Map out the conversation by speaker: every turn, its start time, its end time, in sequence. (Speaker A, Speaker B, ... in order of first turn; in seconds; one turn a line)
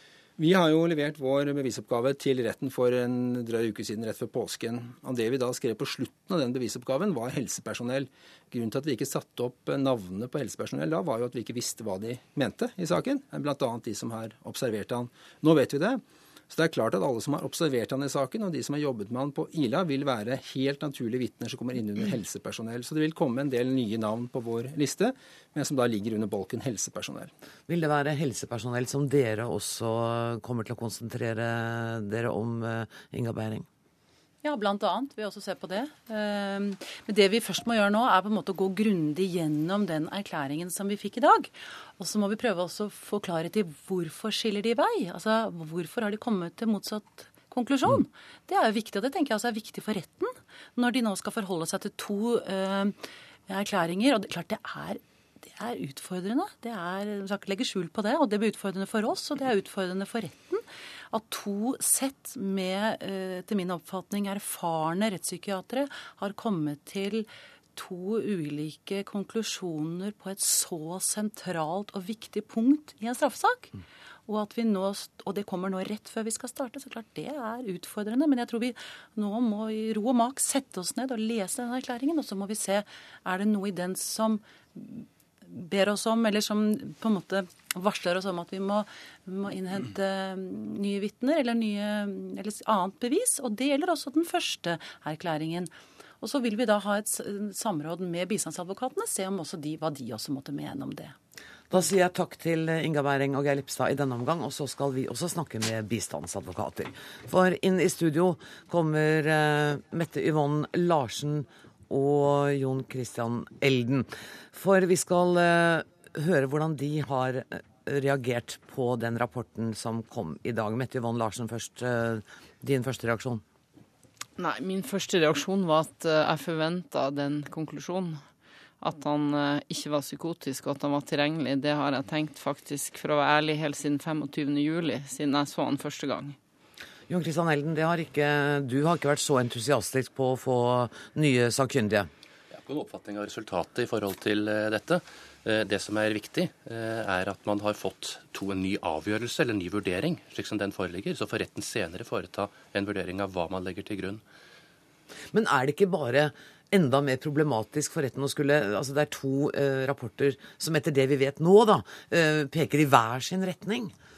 Speaker A: 0.4-27.3
Speaker B: 27.7-33.7
Speaker C: 34.4-53.0
Speaker C: 53.5-73.7
Speaker C: 74.3-101.1
Speaker B: 101.7-123.4
Speaker D: 124.4-128.2
Speaker D: 128.8-136.3
Speaker B: 137.1-142.1
Speaker E: 142.5-154.2
Speaker B: 155.3-163.9